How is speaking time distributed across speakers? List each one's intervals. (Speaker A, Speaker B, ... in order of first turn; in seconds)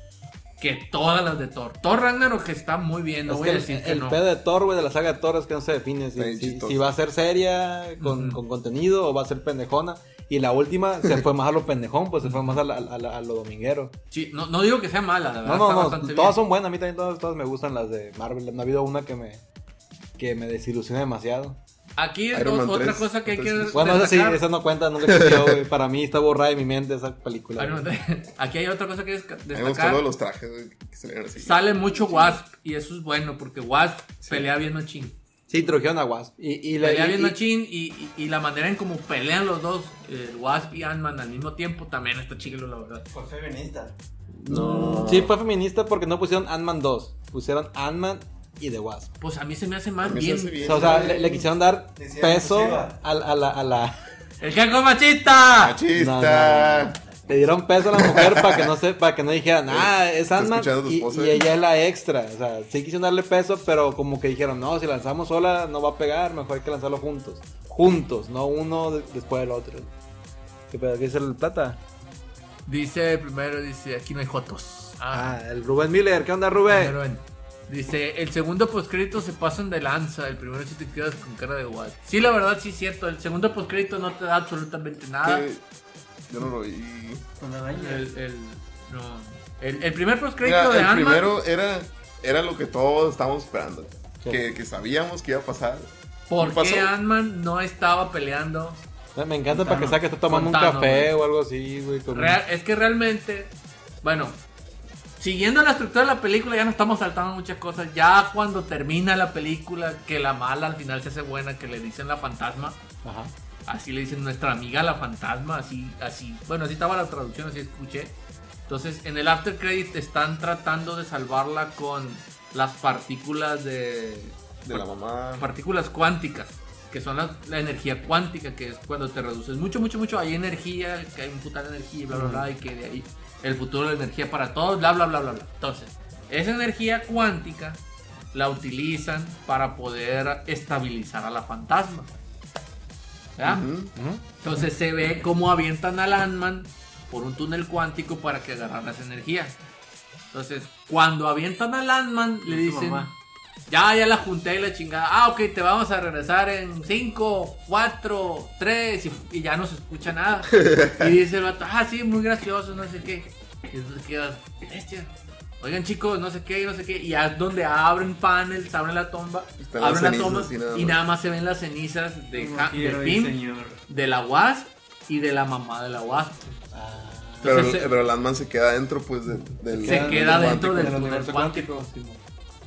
Speaker A: 0.6-4.2, 8.0-8.4, 12.2-12.6, 14.1-16.4, 22.0-24.4, 27.6-30.0, 31.4-35.1, 36.8-43.1, 49.2-50.7, 54.4-55.8, 72.7-75.3, 76.7-85.5, 87.7-91.3, 96.3-98.8, 100.3-101.1, 102.1-104.4, 105.2-112.8, 113.7-118.2, 118.7-137.8, 138.3-142.1, 143.4-143.6, 144.4-149.6, 150.3-153.1, 153.7-173.4, 173.9-176.6, 177.4-177.9, 179.8-181.9
Speaker B: 3.3-13.9, 15.4-19.4, 20.2-21.6, 23.7-27.8, 35.5-37.4, 44.3-49.1, 50.6-54.0, 55.9-69.9, 70.7-71.8, 75.1-77.0, 99.2-102.4, 113.0-113.3, 132.1-132.5, 143.9-144.2, 176.7-177.7, 179.7-182.2
Speaker C: 6.2-6.9, 22.3-24.0, 25.0-25.6, 29.5-32.4, 34.2-34.5, 44.5-45.4, 50.0-51.2, 55.6-57.0, 57.9-58.7, 59.7-61.5, 85.2-85.6, 86.3-87.2, 90.4-96.9, 124.7-125.5, 143.4-143.9, 160.5-161.1, 169.6-171.0, 177.4-181.1
Speaker D: 43.1-44.0, 50.6-53.0, 87.4-88.1, 99.5-100.0, 152.5-153.1, 172.3-173.8